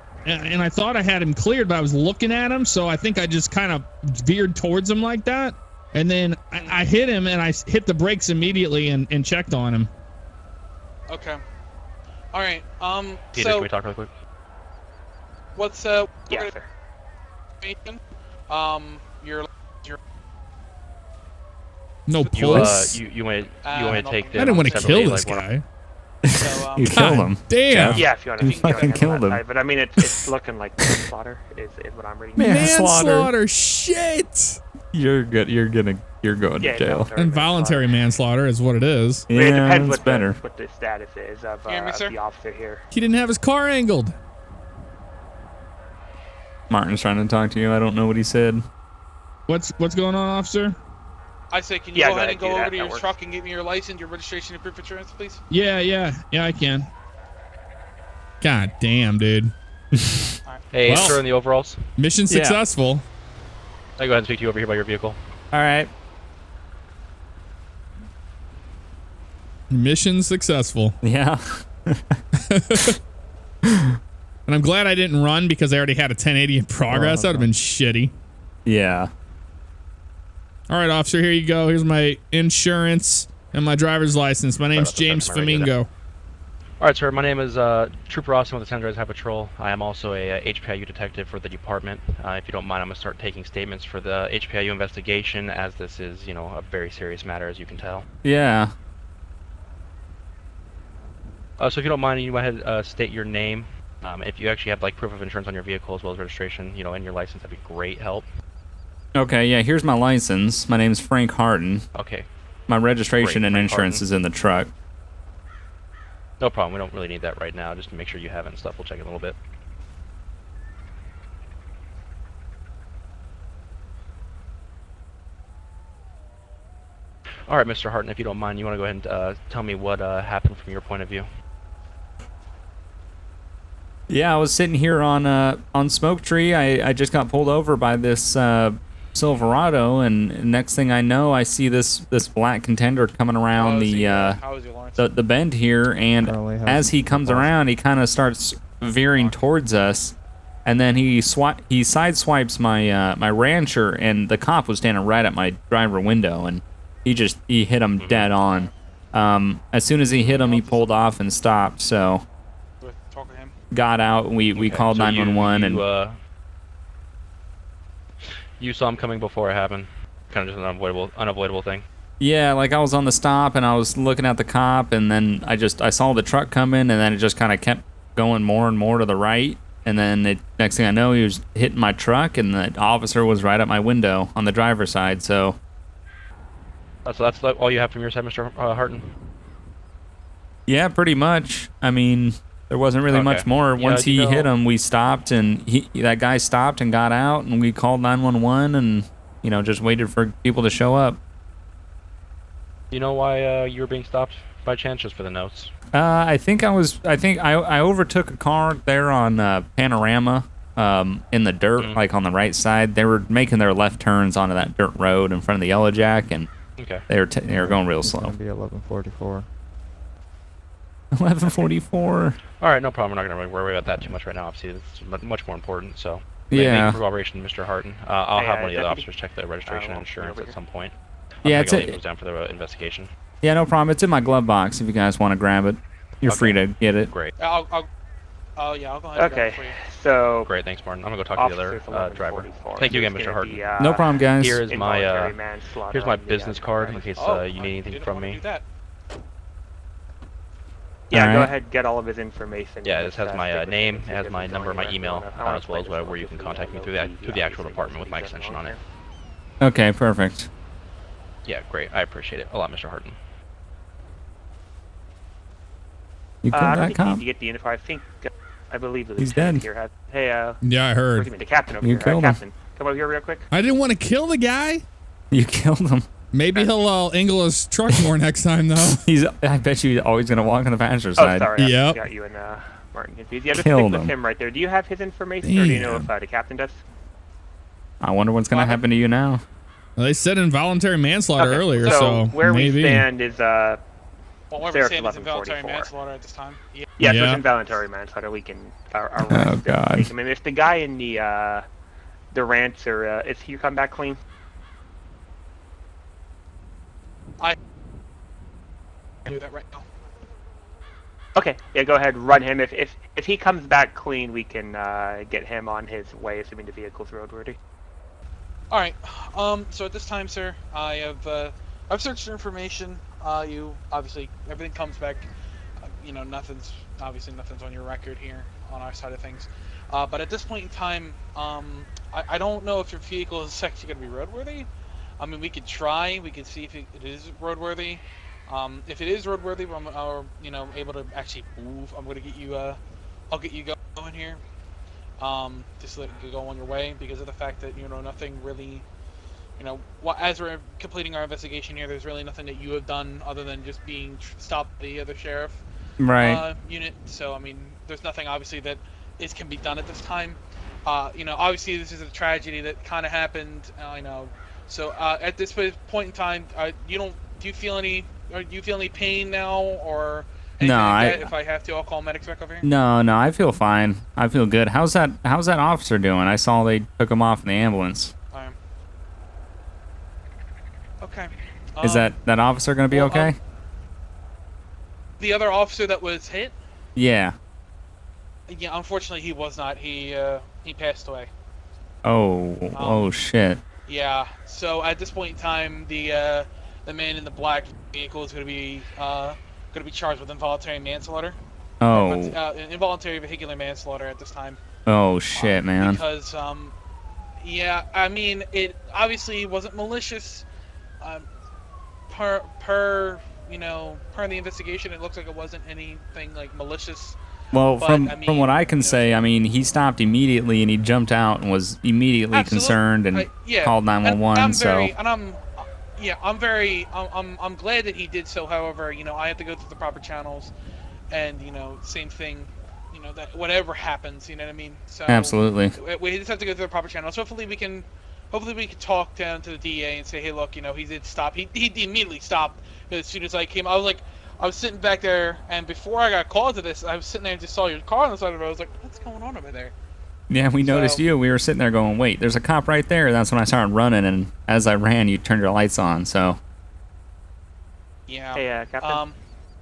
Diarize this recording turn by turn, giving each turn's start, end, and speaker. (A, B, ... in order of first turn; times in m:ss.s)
0:00.2-0:09.9 A
0:06.6-0:06.8 B
0:11.1-0:11.4 B
0:12.3-0:13.7 B
0:13.4-0:14.1 C
0:15.6-0:16.5 B
0:16.3-0:16.7 D
0:17.6-0:20.0 B
0:22.1-0:23.0 A
0:22.2-0:22.7 B
0:22.4-0:25.4 C
0:23.6-0:25.1 B
0:24.4-0:25.6 A
0:26.2-0:29.4 E
0:26.3-0:27.1 B
0:26.9-0:28.1 A
0:27.9-0:32.8 D
0:28.4-0:29.2 B
0:30.0-0:30.2 E
0:32.4-0:33.3 E
0:32.4-0:34.6 A
0:34.9-0:37.1 E
0:36.6-0:38.1 D
0:37.2-0:39.3 A
0:39.3-0:40.4 E
0:39.3-0:42.8 D
0:41.7-0:42.2 B
0:42.9-0:44.2 A
0:46.7-0:48.6 E
0:49.5-0:50.8 A
0:51.5-0:55.4 B
0:51.9-0:53.1 D
0:55.5-0:56.9 A
0:58.4-0:59.5 A
1:00.0-1:00.2 E
1:00.2-1:01.1 B
1:00.7-1:01.8 C
1:00.9-1:01.2 A
1:02.0-1:03.1 A
1:02.3-1:02.6 E
1:04.0-1:05.2 C
1:05.5-1:05.9 E
1:09.7-1:11.0 A
1:11.0-1:12.2 E
1:12.5-1:13.0 A
1:13.6-1:14.0 E
1:14.5-1:18.1 A
1:16.9-1:17.5 F
1:18.7-1:19.1 E
1:20.7-1:25.9 A
1:24.7-1:25.7 C
1:26.8-1:38.0 C
1:38.2-1:38.7 E
1:41.6-1:48.3 C
1:49.2-1:51.9 E
1:52.0-1:52.3 C
1:52.7-1:54.7 E
1:53.2-1:54.0 C
1:56.4-1:59.4 C
2:07.5-2:11.3 C
2:14.1-2:24.4 E
2:23.6-2:25.1 B
2:25.0-2:42.2 E
2:26.2-2:27.5 F
2:29.1-2:29.4 B
2:38.0-2:38.3 C
2:40.2-2:40.9 B
2:42.8-2:43.5 B
2:43.7-2:45.8 E
2:44.6-2:46.2 C
2:48.2-2:51.8 C
2:52.2-3:05.6 E
3:07.0-3:09.1 C
3:10.7-3:21.2 E
3:13.1-3:14.5 C
3:22.9-3:25.7 C
3:25.9-3:36.5 E
3:36.8-3:37.0 C
3:37.1-3:38.4 E
3:37.5-3:39.5 F
3:41.1-3:42.4 E
3:42.6-3:53.1 C
3:46.5-3:47.0 E
3:48.4-3:49.1 D
3:49.7-3:50.5 D
3:51.4-3:52.0 E
3:53.4-3:57.1 E
3:56.2-3:57.3 C
3:57.4-3:57.9 B
3:58.6-3:59.8 B
3:59.2-4:00.5 D
4:00.5-4:03.6 C
4:01.4-4:07.1 D
4:03.8-4:04.6 E
4:04.4-4:05.4 C
4:05.9-4:08.4 C
4:07.2-4:08.6 B
4:11.1-4:18.8 D
4:11.1-4:11.5 E
4:12.8-4:18.8 C
4:19.6-4:20.5 E
4:21.5-4:23.2 C
4:26.4-4:27.2 E
4:26.5-4:30.6 D
4:29.2-4:29.6 E
4:30.6-4:31.3 A
4:31.2-4:33.5 D
4:31.8-4:32.4 E
4:33.5-4:34.8 A
4:35.3-4:36.1 E
4:36.3-4:39.0 A
4:38.8-4:41.5 E
4:41.2-4:46.8 D
4:41.6-4:42.0 A
4:43.5-4:44.1 E
4:45.4-4:46.1 A
4:48.0-4:49.4 E
4:48.5-4:48.8 B
4:50.0-4:53.1 A
4:51.4-4:53.8 D
4:54.5-4:56.9 B
4:54.6-4:55.9 D
4:57.0-5:01.7 D
4:57.0-4:57.4 A
4:59.2-5:00.1 E
5:02.3-5:04.2 D
5:09.2-5:09.9 B
5:11.4-5:17.6 D
5:18.7-5:25.3 B
5:26.0-5:34.7 B
5:35.2-5:42.8 B
5:43.3-5:44.4 B
5:45.2-5:48.8 B
5:49.6-5:55.6 B
5:56.0-5:56.4 E
5:56.2-6:12.7 B
6:10.6-6:11.3 E
6:12.6-6:18.1 E
6:21.0-6:22.1 B
6:21.8-6:23.4 E
6:22.9-6:23.4 B
6:25.2-6:26.6 B
6:27.0-6:27.4 E
6:28.5-6:31.3 B
6:32.0-6:33.6 E
6:32.8-6:33.2 B
6:33.9-6:41.4 B
6:41.8-6:42.4 E
6:41.9-6:44.6 B
6:44.9-6:46.0 E
6:45.4-6:46.7 B
6:47.4-6:50.4 B
6:51.0-6:51.3 B
6:52.1-6:57.2 B
6:57.5-7:04.9 E
6:57.8-6:59.2 B
7:02.3-7:10.5 B
7:11.1-7:29.7 B
7:15.1-7:15.8 E
7:30.3-7:36.4 E
7:30.6-7:31.0 B
7:38.1-7:39.2 B
7:38.4-7:39.0 D